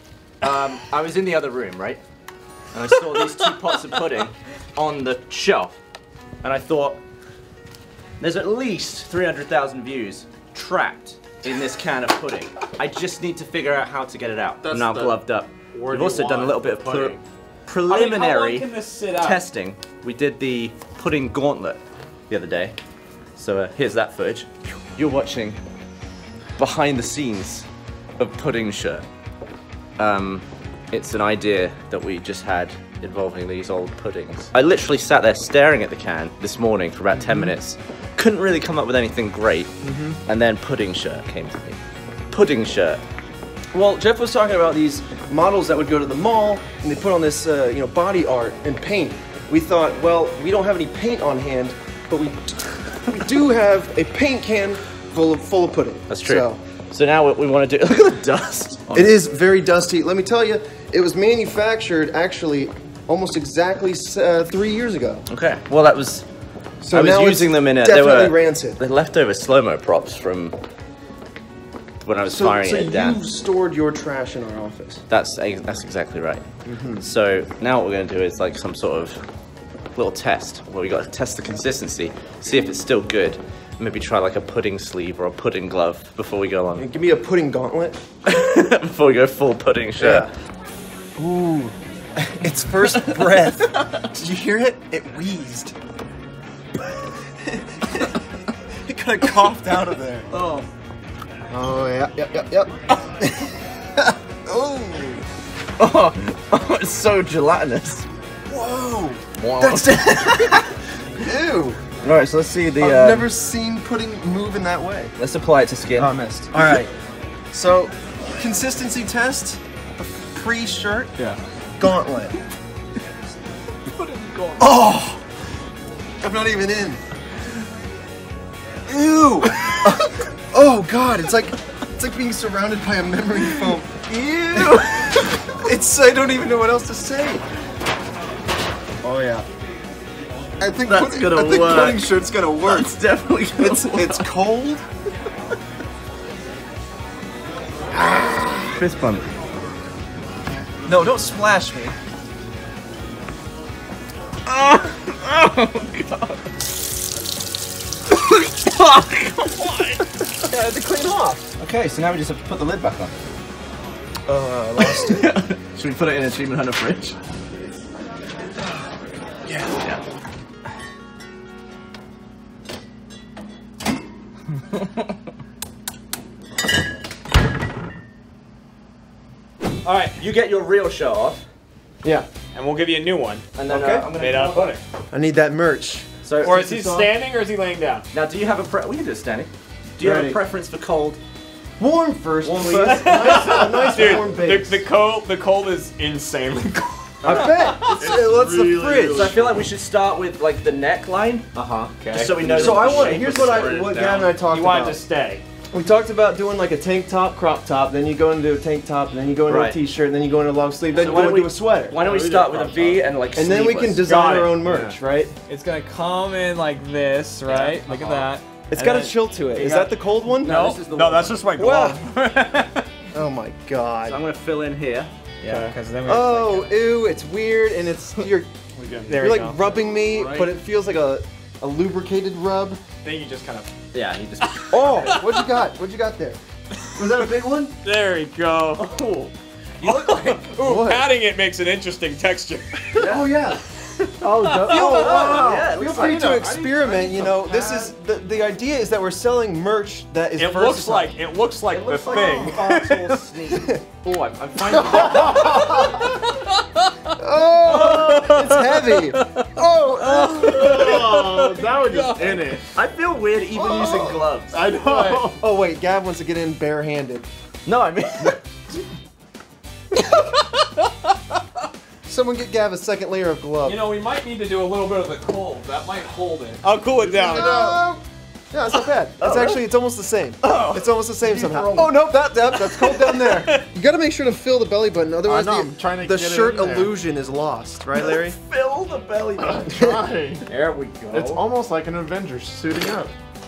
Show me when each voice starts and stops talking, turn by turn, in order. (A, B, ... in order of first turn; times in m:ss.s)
0:00.4-0:02.0 A
0:02.7-0:05.8 A
0:06.4-0:07.0 A
0:08.2-0:22.7 A
0:15.7-0:17.2 B
0:17.8-0:19.4 B
0:23.4-0:25.6 A
0:26.6-0:27.7 A
0:28.2-0:29.0 A
0:30.0-0:39.7 A
0:37.2-0:37.5 C
0:39.8-0:40.2 C
0:40.3-0:41.8 A
0:42.3-0:43.0 A
0:43.7-0:56.6 C
0:56.1-0:59.1 A
0:58.9-1:05.2 C
1:05.3-1:06.2 A
1:06.8-1:08.8 C
1:06.9-1:10.6 A
1:12.0-1:13.2 A
1:12.3-1:15.0 C
1:15.1-1:16.4 A
1:16.6-1:17.0 C
1:17.0-1:19.2 A
1:19.9-1:26.9 A
1:26.7-1:28.0 C
1:28.2-1:30.3 A
1:30.0-1:30.3 C
1:31.2-1:35.7 C
1:37.4-1:38.2 C
1:38.8-1:40.3 C
1:40.3-1:40.7 A
1:41.5-1:45.2 C
1:45.8-1:48.0 A
1:48.5-1:51.8 C
1:49.4-1:50.5 A
1:52.0-1:53.3 A
1:52.8-1:55.1 C
1:55.2-1:56.8 A
1:56.0-1:56.9 C
1:57.5-2:01.2 C
2:01.8-2:02.4 C
2:04.6-2:05.2 C
2:06.2-2:07.0 C
2:08.9-2:17.4 C
2:14.5-2:15.2 A
2:19.0-2:19.5 C
2:20.6-2:23.0 C
2:20.9-2:22.0 A
2:22.6-2:24.2 A
2:23.6-2:24.8 C
2:28.0-2:29.2 A
2:30.8-2:31.9 C
2:34.5-2:36.5 A
2:38.2-2:40.0 A
2:40.5-2:41.5 C
2:41.6-2:43.1 A
2:44.3-2:45.3 C
2:44.8-2:47.2 A
2:49.7-2:50.0 A
2:59.8-3:01.4 A
3:02.0-3:02.3 C
3:02.5-3:03.4 B
3:03.6-3:04.8 A
3:03.7-3:04.1 C
3:04.1-3:04.8 B
3:05.1-3:06.1 C
3:06.2-3:07.1 A
3:06.4-3:08.0 B
3:08.1-3:11.2 A
3:10.0-3:10.4 C
3:11.8-3:14.8 C
3:12.4-3:13.8 A
3:12.8-3:17.9 B
3:17.2-3:19.3 C
3:17.2-3:17.8 A
3:18.0-3:19.6 D
3:19.1-3:21.6 A
3:21.6-3:21.9 C
3:22.0-3:22.9 B
3:22.1-3:23.8 A
3:22.4-3:25.0 C
3:22.9-3:24.3 D
3:24.1-3:25.4 B
3:25.7-3:32.0 C
3:29.5-3:29.8 A
3:30.9-3:34.4 A
3:32.0-3:33.0 B
3:33.3-3:35.3 C
3:34.0-3:35.0 B
3:35.5-3:42.9 B
3:37.4-3:38.3 A
3:38.7-3:40.6 C
3:39.7-3:41.6 A
3:41.6-3:42.0 C
3:43.1-3:44.2 C
3:44.0-3:45.7 A
3:45.4-3:46.7 B
3:46.0-3:48.5 C
3:48.8-3:50.5 B
3:49.2-3:52.8 C
3:53.0-3:53.7 B
3:53.9-3:55.2 A
3:54.7-3:56.4 C
3:55.0-3:55.4 B
3:56.9-3:57.8 C
3:57.8-3:58.8 B
3:58.8-4:00.4 A
3:59.8-4:03.0 B
4:00.6-4:01.1 C
4:02.9-4:03.3 A
4:03.0-4:03.6 C
4:04.2-4:11.1 C
4:04.2-4:05.4 B
4:04.4-4:06.4 A
4:06.0-4:07.8 B
4:10.4-4:13.2 B
4:11.7-4:15.9 A
4:12.1-4:12.6 C
4:13.5-4:13.8 C
4:14.7-4:15.8 C
4:15.6-4:17.1 B
4:17.2-4:21.2 C
4:17.6-4:19.2 B
4:20.0-4:22.6 B
4:20.8-4:22.6 D
4:22.7-4:24.6 A
4:23.5-4:24.2 C
4:24.5-4:25.4 D
4:24.7-4:25.4 B
4:25.3-4:27.3 C
4:27.6-4:28.4 A
4:30.1-4:30.8 B
4:32.0-4:33.8 C
4:33.6-4:37.6 B
4:37.1-4:48.4 C
4:37.2-4:37.7 D
4:39.2-4:39.6 A
4:40.4-4:40.8 A
4:41.2-4:41.9 D
4:42.8-4:43.6 B
4:45.2-4:47.0 D
4:47.9-4:49.8 A
4:49.5-4:50.4 D
4:49.6-4:50.2 C
4:50.5-4:51.4 B
4:50.5-4:51.2 A
4:51.1-4:53.1 D